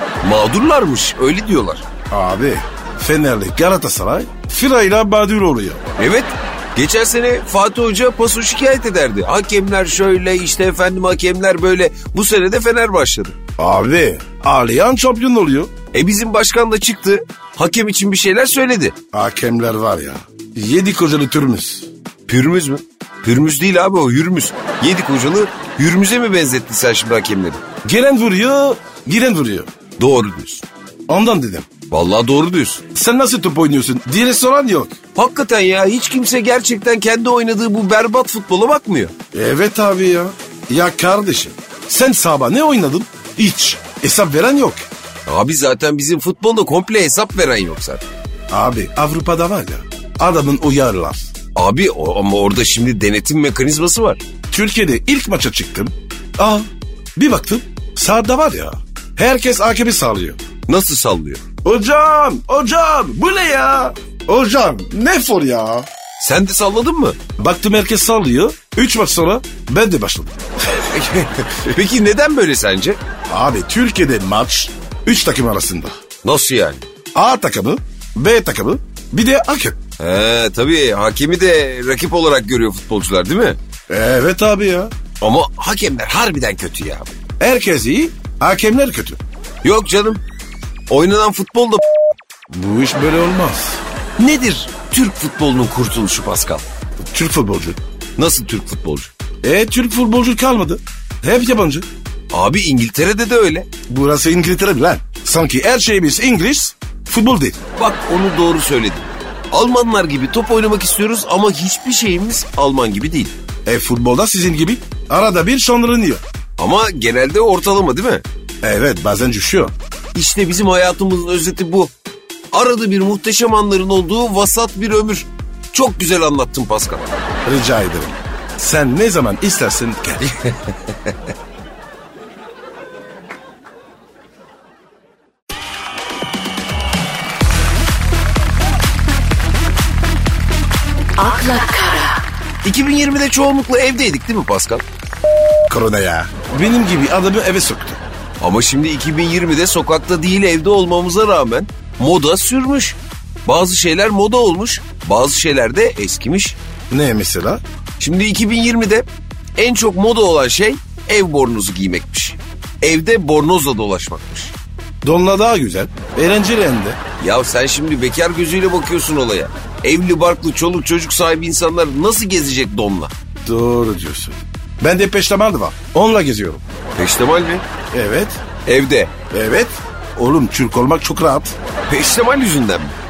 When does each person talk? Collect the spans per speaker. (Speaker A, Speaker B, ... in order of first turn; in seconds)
Speaker A: 0.2-1.8, 6.0-13.4, 15.9-18.9, 22.3-27.6, 30.0-30.6, 31.9-32.8, 35.1-39.1, 45.2-48.0, 51.5-54.2, 60.7-61.4, 66.2-67.2, 70.9-73.0, 76.2-76.8, 80.0-83.6, 85.2-87.1, 89.6-90.2, 90.9-91.8, 94.2-96.6, 98.2-99.1, 102.3-103.7, 107.8-113.3, 116.6-118.2, 120.1-121.9, 122.5-127.1, 141.2-144.8, 148.4-156.6, 158.0-164.5, 167.2-173.1, 176.9-177.6, 178.6-179.1, 181.9-182.9
Speaker B: 2.1-5.8, 13.6-15.7, 19.1-21.9, 27.8-29.7, 31.1-31.7, 32.9-34.9, 39.3-44.8, 48.5-51.3, 54.5-60.4, 61.6-65.9, 67.4-71.8, 73.3-75.9, 77.1-79.8, 83.9-84.9, 87.4-89.2, 92.5-93.8, 97.1-97.8, 99.4-101.8, 103.9-107.6, 113.7-116.2, 118.6-119.7, 127.4-130.3, 145.7-148.0, 156.9-157.6, 165.0-167.0, 173.4-176.6, 177.9-178.4, 179.3-181.5